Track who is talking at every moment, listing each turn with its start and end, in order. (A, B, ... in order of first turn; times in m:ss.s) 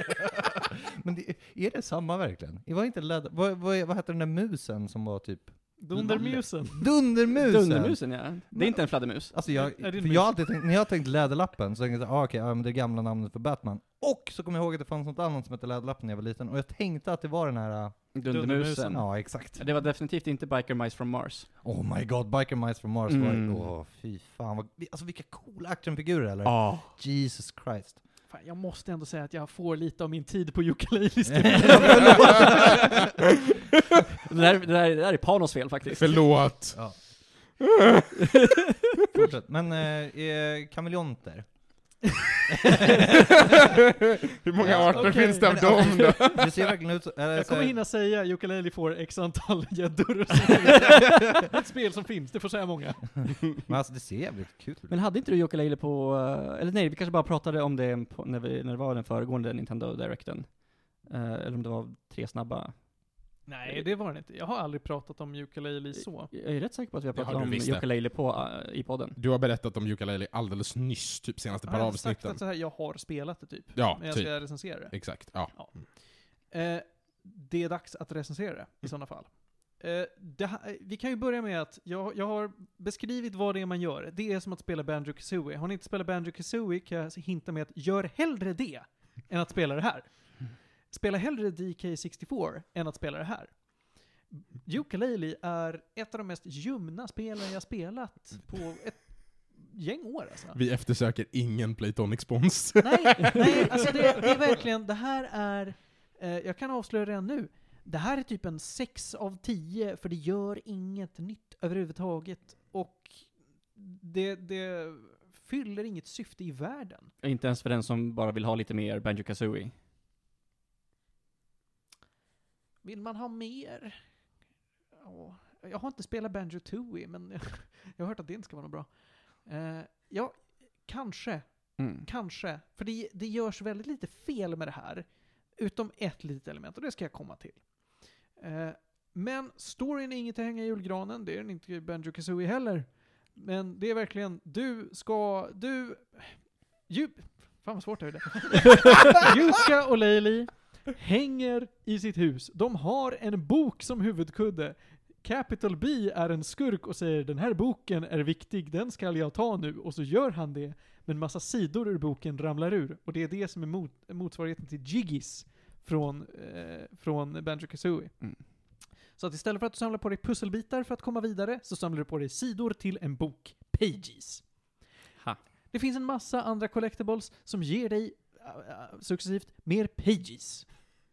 0:00.5-0:18.1 A
0:05.8-0:06.8 B
0:06.0-0:06.3 C
0:07.2-0:09.3 C
0:09.5-0:10.4 B
0:18.1-0:21.5 C
0:18.2-0:19.0 B
0:18.9-0:19.6 A
0:21.6-0:28.0 A
0:23.1-0:23.7 C
0:26.4-0:26.9 C
0:28.3-0:33.2 B
0:31.3-0:32.9 A
0:32.0-0:32.6 C
0:34.2-0:36.3 C
0:35.9-0:37.0 D
0:37.6-0:38.2 D
0:38.3-0:38.6 C
0:39.1-0:41.5 A
0:42.5-0:43.4 A
0:44.3-0:46.7 D
0:44.6-0:47.8 A
0:44.7-0:46.2 B
0:47.3-0:53.3 B
0:53.6-0:54.9 A
0:54.9-1:00.5 C
1:01.0-1:02.7 C
1:03.5-1:06.3 B
1:06.0-1:09.2 C
1:07.1-1:07.8 D
1:09.2-1:12.4 D
1:11.7-1:15.9 B
1:13.7-1:15.8 D
1:16.5-1:33.6 B
1:34.3-1:40.6 B
1:40.5-1:44.3 D
1:42.8-1:57.1 B
1:57.2-1:59.7 C
2:02.8-2:04.0 B
2:05.0-2:08.9 B
2:09.4-2:17.7 B
2:11.8-2:12.0 C
2:18.4-2:26.4 B
2:26.9-2:48.1 B
2:49.2-2:54.4 B
2:55.7-3:00.8 B